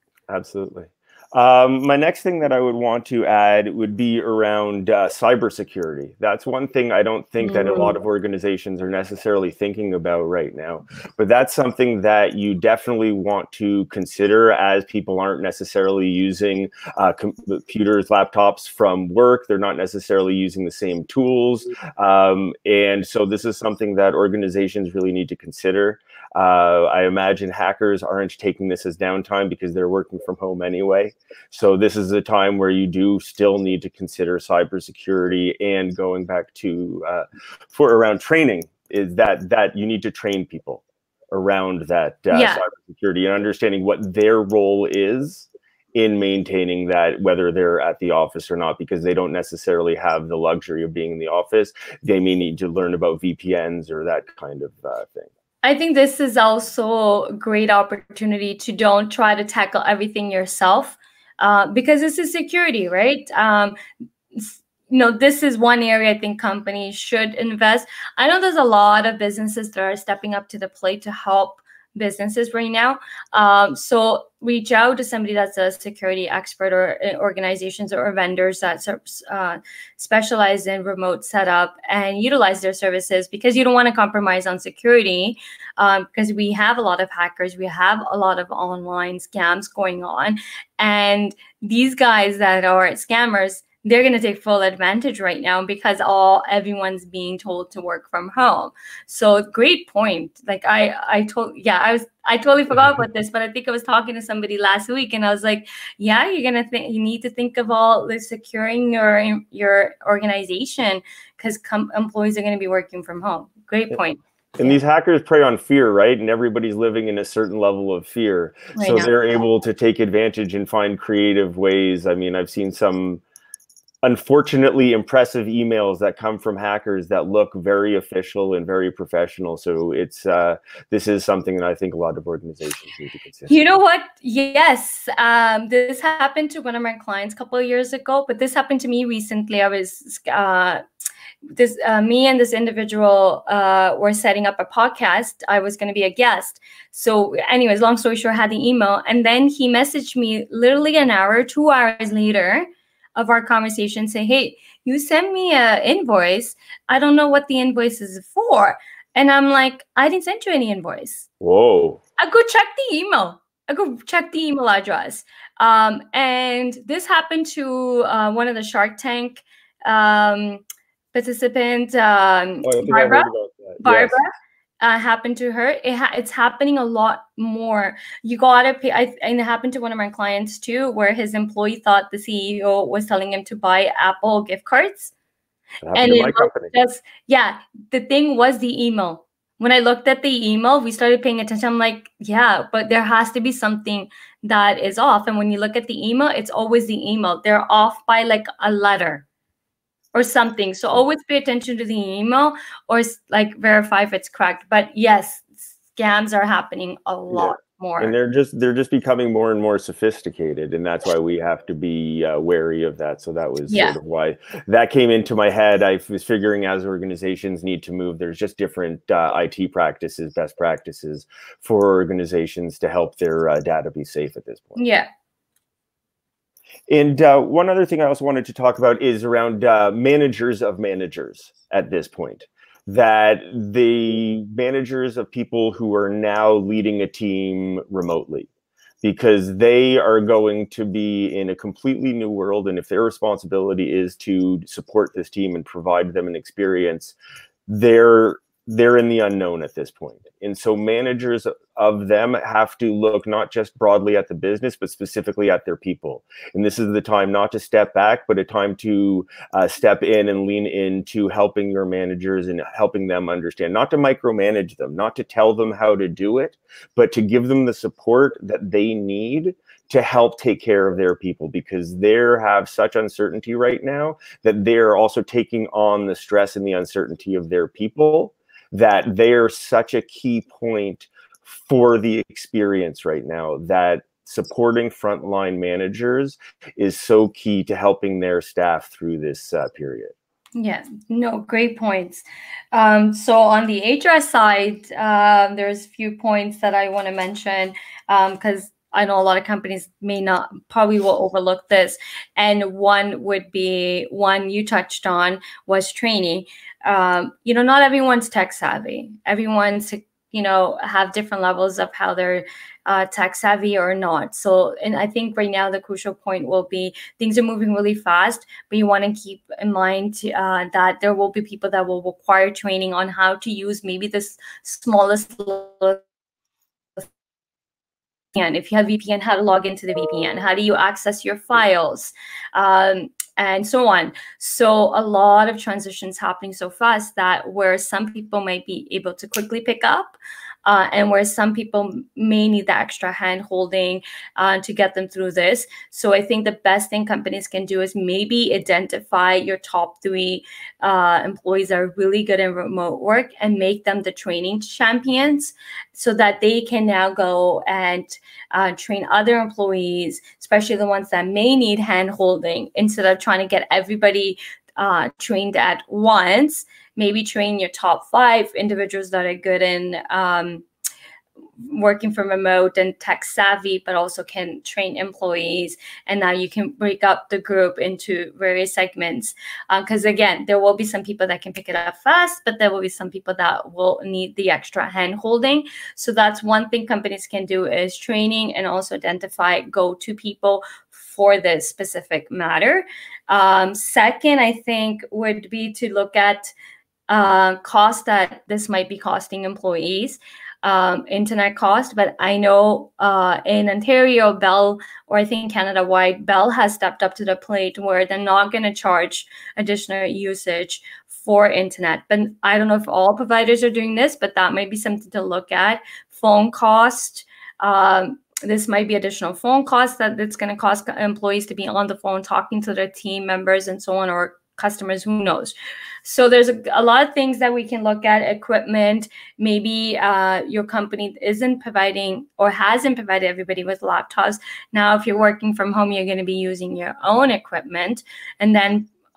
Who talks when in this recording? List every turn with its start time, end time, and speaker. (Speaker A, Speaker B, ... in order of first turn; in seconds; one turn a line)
Speaker A: 0.3-55.3
Speaker B: 7.4-8.0
Speaker B: 42.3-42.6
Speaker B: 55.6-63.8
Speaker B: 64.3-114.8
Speaker A: 114.6-123.2
Speaker B: 118.8-119.1
Speaker A: 124.0-133.8
Speaker B: 133.5-140.8
Speaker B: 141.5-161.3
Speaker A: 161.4-162.0
Speaker B: 162.2-173.3
Speaker A: 172.6-174.2
Speaker B: 173.8-185.1
Speaker A: 185.8-186.7
Speaker B: 185.9-199.2
Speaker B: 200.1-208.1
Speaker A: 207.3-224.8
Speaker B: 213.7-213.9
Speaker B: 224.8-225.1
Speaker A: 226.9-238.5
Speaker A: 239.0-247.2
Speaker A: 247.7-290.1
Speaker B: 290.5-326.0
Speaker B: 328.3-370.6
Speaker B: 371.6-396.5
Speaker B: 397.1-438.9